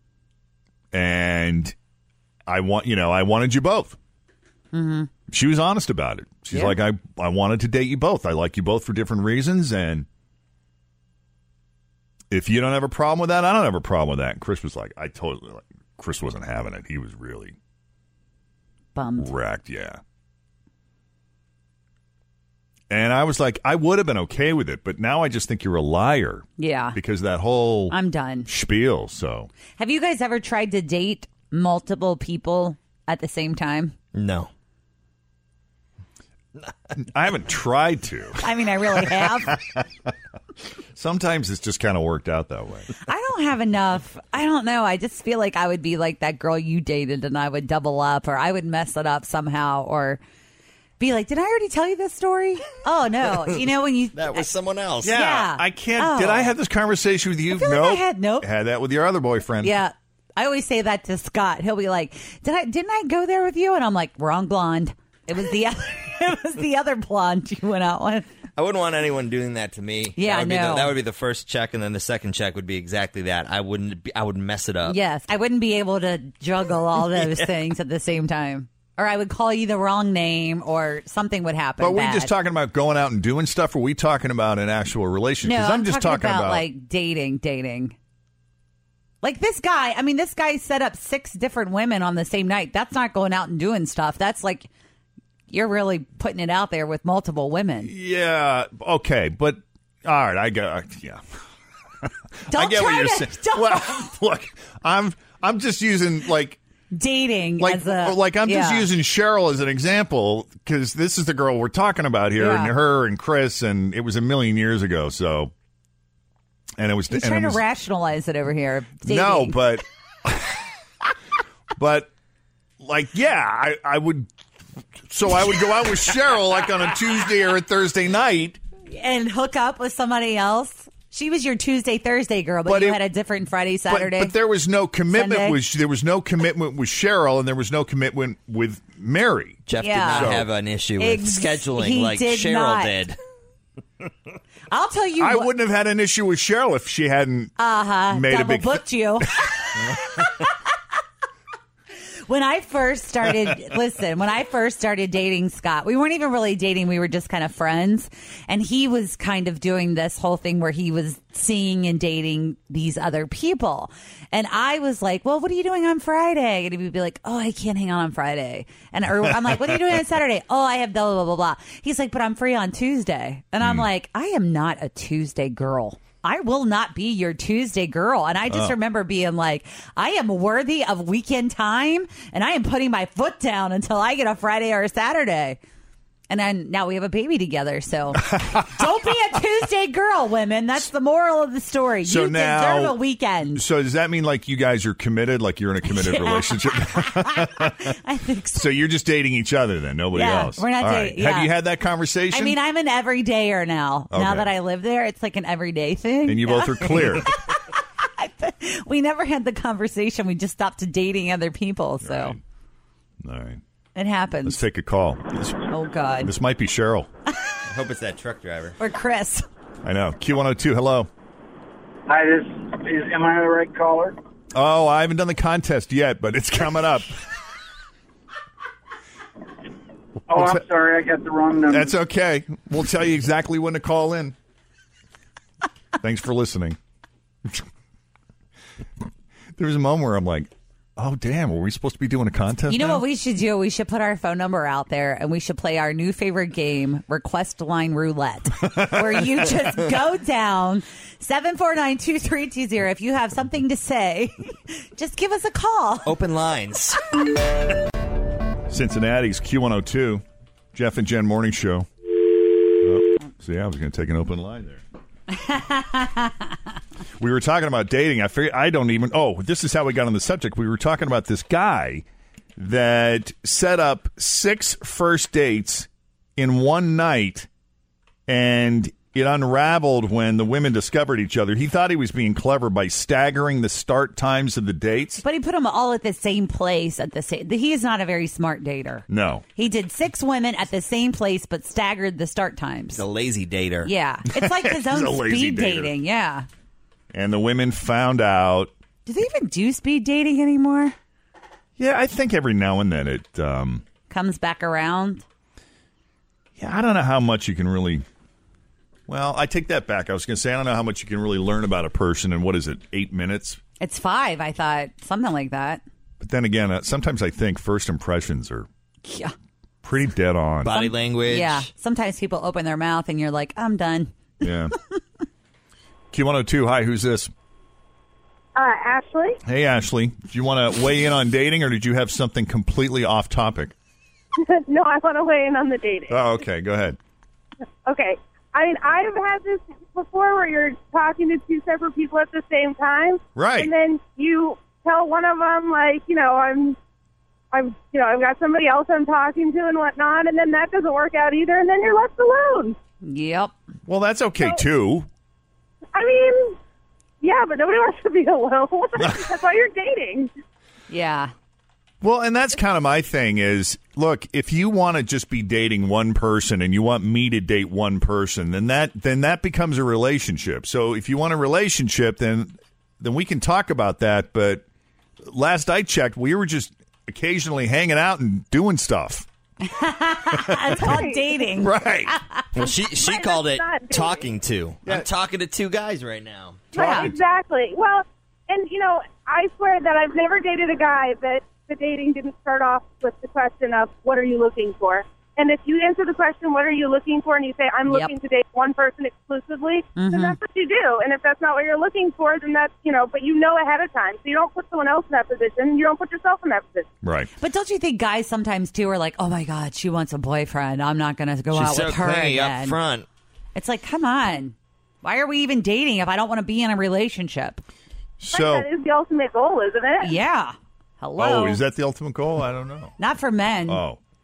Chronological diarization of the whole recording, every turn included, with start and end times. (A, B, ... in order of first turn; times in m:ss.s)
0:00.9-0:01.8 A
0:02.5-0:04.0 A
0:04.7-0:05.1 B
0:05.3-0:10.1 A
0:06.5-0:06.8 B
0:12.3-0:17.6 A
0:19.0-0:19.3 B
0:19.2-0:20.0 A
0:22.9-0:29.5 A
0:26.6-0:27.0 B
0:27.9-0:28.5 B
0:29.8-0:33.9 B
0:34.1-0:34.5 C
0:37.0-0:38.5 A
0:38.4-0:39.6 B
0:39.0-0:39.8 A
0:40.9-0:42.9 A
0:43.1-0:50.2 B
0:51.0-0:54.5 B
0:54.2-0:55.2 C
0:55.0-0:59.8 A
0:55.0-0:56.5 B
0:57.5-0:58.5 B
0:59.6-1:08.3 B
1:08.6-1:15.0 C
1:10.2-1:11.0 B
1:14.9-1:22.3 B
1:21.8-1:26.7 A
1:25.4-1:28.0 B
1:29.2-1:34.7 B
1:35.5-1:37.9 B
1:37.8-1:41.2 A
1:42.0-1:46.6 A
1:42.5-1:44.1 B
1:46.9-1:48.9 B
1:47.6-1:55.5 A
1:52.4-1:52.7 B
1:56.8-1:57.6 A
1:57.1-1:59.6 B
1:59.0-2:00.6 A
2:01.8-2:02.1 A
2:02.8-2:04.3 A
2:05.1-2:08.6 A
2:08.9-2:14.3 B
2:12.7-2:13.0 A
2:13.9-2:20.5 A
2:15.1-2:15.6 B
2:19.7-2:23.2 C
2:19.8-2:20.4 B
2:21.0-2:23.0 B
2:24.7-2:25.5 B
2:25.2-2:27.5 A
2:27.6-2:30.5 B
2:28.1-2:28.8 A
2:32.3-3:05.6 B
2:53.6-2:53.9 A
2:58.5-2:58.8 A
3:06.3-3:13.6 B
3:08.2-3:08.9 A
3:12.0-3:13.0 A
3:13.5-3:18.0 A
3:15.9-3:18.7 B
3:18.5-3:22.6 A
3:20.1-3:21.5 B
3:22.3-3:27.6 B
3:24.1-3:24.5 A
3:26.3-3:27.3 A
3:28.2-3:32.4 B
3:32.0-3:32.4 A
3:33.2-3:33.6 A
3:34.0-3:34.6 B
3:34.4-3:35.7 A
3:35.7-3:36.3 B
3:36.2-3:37.1 A
3:37.7-3:38.8 C
3:38.8-3:39.4 B
3:39.8-3:41.1 A
3:42.1-3:44.2 D
3:44.5-3:47.2 A
3:50.3-3:51.9 D
3:50.3-3:50.6 A
3:51.7-3:54.4 A
3:56.0-3:56.8 A
3:59.6-4:03.0 A
4:02.7-4:16.1 B
4:08.6-4:09.4 A
4:16.1-4:17.0 C
4:18.7-4:21.9 A
4:22.8-4:24.8 A
4:25.3-4:26.5 B
4:27.2-4:32.0 A
4:32.6-4:37.5 A
4:38.3-4:45.2 A
4:45.2-4:53.0 B
4:49.1-4:49.4 A
4:53.0-4:53.9 C
4:53.8-4:56.5 B
4:54.3-4:55.9 A
4:57.1-4:58.7 A
4:59.1-5:01.0 B
5:01.8-5:03.8 A
5:04.1-5:05.2 B
5:06.6-5:08.0 A
5:09.1-5:13.6 A
5:13.8-5:15.8 B
5:16.2-5:18.7 A
5:19.0-5:19.3 B
5:19.8-5:20.8 A
5:20.6-5:21.7 C
5:20.7-5:24.1 B
5:24.4-5:24.7 A
5:26.1-5:27.3 A
5:28.6-5:29.4 E
5:29.4-5:33.7 A
5:34.4-5:36.2 E
5:36.1-5:37.0 A
5:37.8-5:46.8 E
5:43.4-5:43.7 A
5:47.5-5:52.8 E
5:53.0-5:53.5 B
5:53.9-5:55.1 A
5:55.9-5:56.6 E
5:57.2-6:00.3 E
6:00.9-6:01.3 B
6:02.0-6:14.6 A
6:15.2-6:19.3 A
6:19.6-6:22.5 B
6:20.3-6:21.0 A
6:20.8-6:21.4 E
6:21.6-6:22.2 A
6:22.6-6:26.7 C
6:22.9-6:24.3 E
6:26.7-6:46.9 E
6:26.8-6:27.1 B
6:26.8-6:27.1 A
6:40.0-6:40.4 B
6:47.0-6:47.3 A
6:47.4-6:52.8 B
6:51.5-6:53.1 C
6:53.6-6:57.6 B
6:58.2-6:58.7 A
6:58.3-7:00.2 E
7:00.0-7:01.6 B
7:01.2-7:03.0 A
7:03.0-7:03.8 B
7:03.7-7:04.0 A